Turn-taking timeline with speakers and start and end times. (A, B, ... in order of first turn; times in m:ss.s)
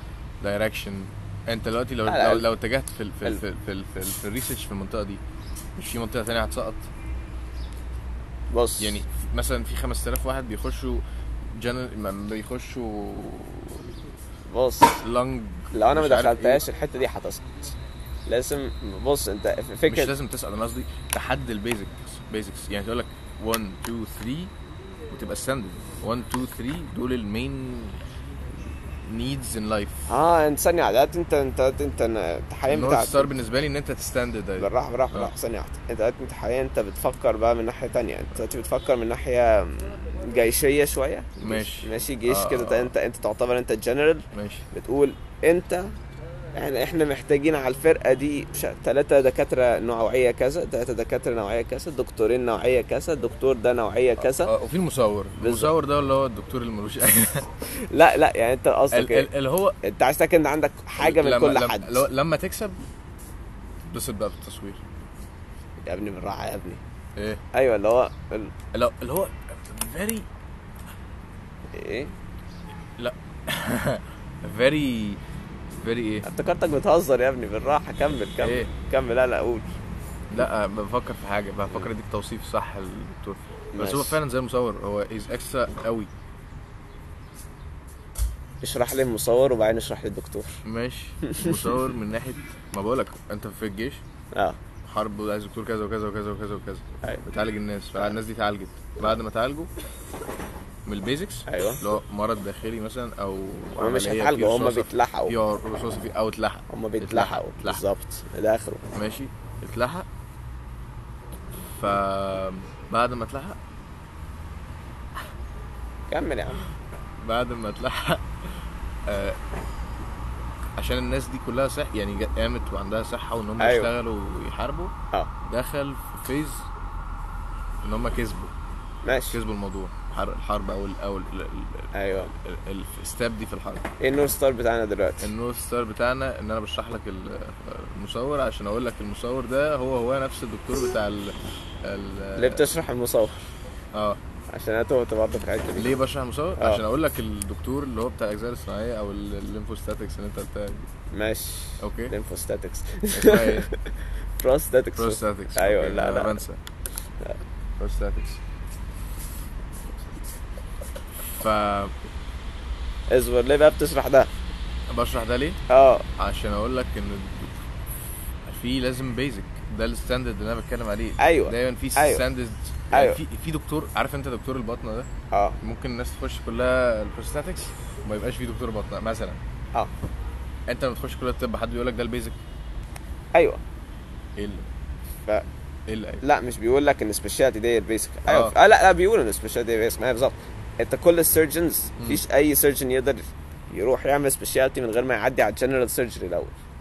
0:00.4-0:05.2 A
0:02.1-0:02.5 B
0:05.8-0:06.9 A
0:08.5-0:09.0 B
0:08.8-0:11.0 A
0:11.5-0:13.9 A
0:14.5-0:15.0 B
0:15.0-0:16.6 A
0:15.7-0:17.8 B
0:18.3-0:20.1 B
0:19.9-0:24.5 A
0:25.1-0:28.0 A
0:29.0-0:30.1 A
0:30.1-0:33.3 B
0:32.7-0:35.3 A
0:34.6-0:45.9 B
0:41.4-0:42.9 A
0:44.3-0:44.6 A
0:46.6-0:54.5 B
0:54.2-0:57.5 A
0:55.4-0:55.7 B
0:57.7-0:59.3 B
0:58.9-0:59.8 A
0:59.8-1:02.0 B
1:01.0-1:02.8 A
1:03.8-1:04.8 A
1:05.8-1:06.8 B
1:07.2-1:07.4 A
1:07.5-1:08.5 B
1:08.7-1:10.3 A
1:11.7-1:12.1 B
1:13.0-1:15.2 A
1:15.8-1:16.3 A
1:16.2-1:19.7 B
1:18.4-1:18.7 A
1:20.3-1:26.1 A
1:23.7-1:24.2 B
1:28.6-1:30.6 B
1:30.6-1:34.0 A
1:31.2-1:31.6 B
1:34.3-1:34.6 B
1:34.8-1:39.7 A
1:40.9-1:47.8 A
1:41.5-1:41.8 B
1:43.8-1:45.4 B
1:46.7-1:48.8 B
1:48.9-1:50.1 A
1:51.7-1:53.6 A
1:56.1-1:56.6 B
1:57.2-1:59.4 A
2:00.8-2:06.7 A
2:03.6-2:03.9 B
2:07.8-2:08.5 A
2:09.0-2:09.4 B
2:09.3-2:13.9 A
2:11.9-2:12.3 B
2:14.0-2:15.3 B
2:15.2-2:22.7 A
2:22.4-2:23.5 B
2:23.9-2:24.2 A
2:24.5-2:25.9 B
2:25.8-2:30.9 A
2:31.1-2:36.4 B
2:31.8-2:32.1 A
2:33.1-2:33.7 A
2:35.0-2:36.6 A
2:37.8-2:38.4 A
2:41.4-2:41.9 A
2:43.1-2:44.3 B
2:44.9-2:45.6 A
2:45.7-2:46.1 B
2:46.2-2:47.6 A
2:48.5-2:55.1 A
2:51.2-2:52.2 B
2:52.9-2:53.2 B
2:55.3-2:55.6 B
2:55.6-2:59.4 A
3:00.7-3:02.4 A
3:03.4-3:03.6 B
3:04.4-3:04.7 A
3:05.9-3:06.2 A
3:06.2-3:16.6 B
3:08.3-3:08.6 A
3:12.0-3:12.2 A